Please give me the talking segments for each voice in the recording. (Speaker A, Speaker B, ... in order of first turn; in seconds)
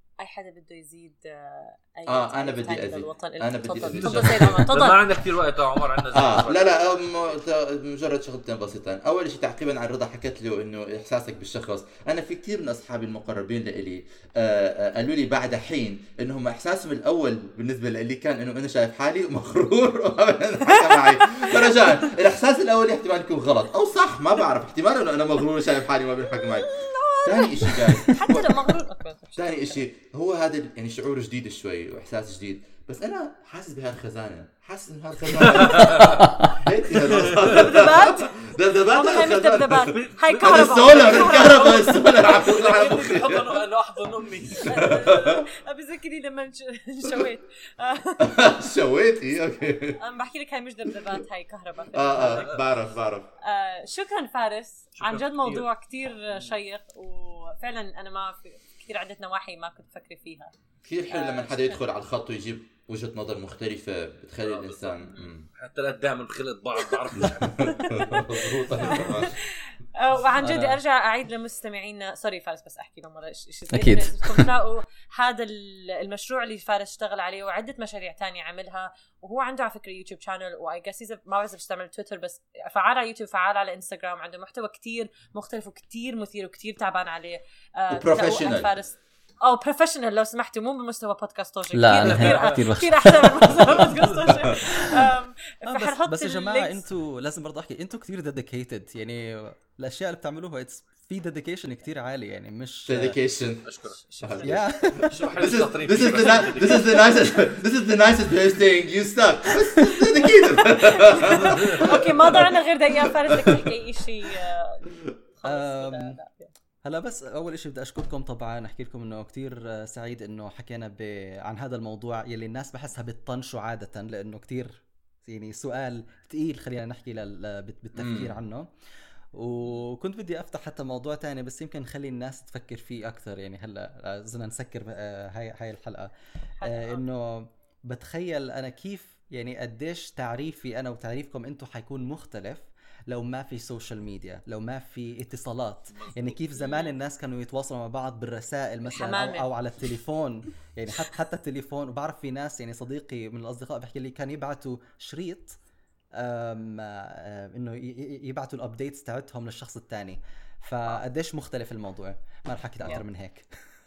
Speaker A: 0.2-5.0, 20.9-21.7, 26.7-29.8, 37.5-42.9, 44.6-48.4, 50.0-52.5, 53.4-60.5, 61.1-61.8, 67.8-68.2, 68.8-96.8, 104.1-104.7, 106.8-107.4, 110.6-116.5, 136.6-137.0, 146.6-146.9, 148.8-149.5
Speaker B: 2.1-4.7, 6.1-28.8, 29.4-43.6, 44.6-45.4, 48.2-50.0, 51.9-53.3, 60.8-65.5, 67.2-69.4, 87.9-88.7, 102.9-103.7, 104.2-112.5, 113.3-113.7, 128.0-128.3
Speaker C: 4.0-7.3, 35.5-36.1, 37.1-37.5, 40.5-44.9, 52.2-52.6, 55.0-55.6, 64.4-68.2, 91.9-92.6, 103.6-104.0, 105.1-107.2, 145.9-146.4
Speaker D: 35.6-36.5, 70.4-70.8, 73.7-74.5, 91.7-95.1, 95.7-103.2, 104.4-105.1, 115.4-116.2, 116.8-128.7, 129.3-155.6, 156.1-163.5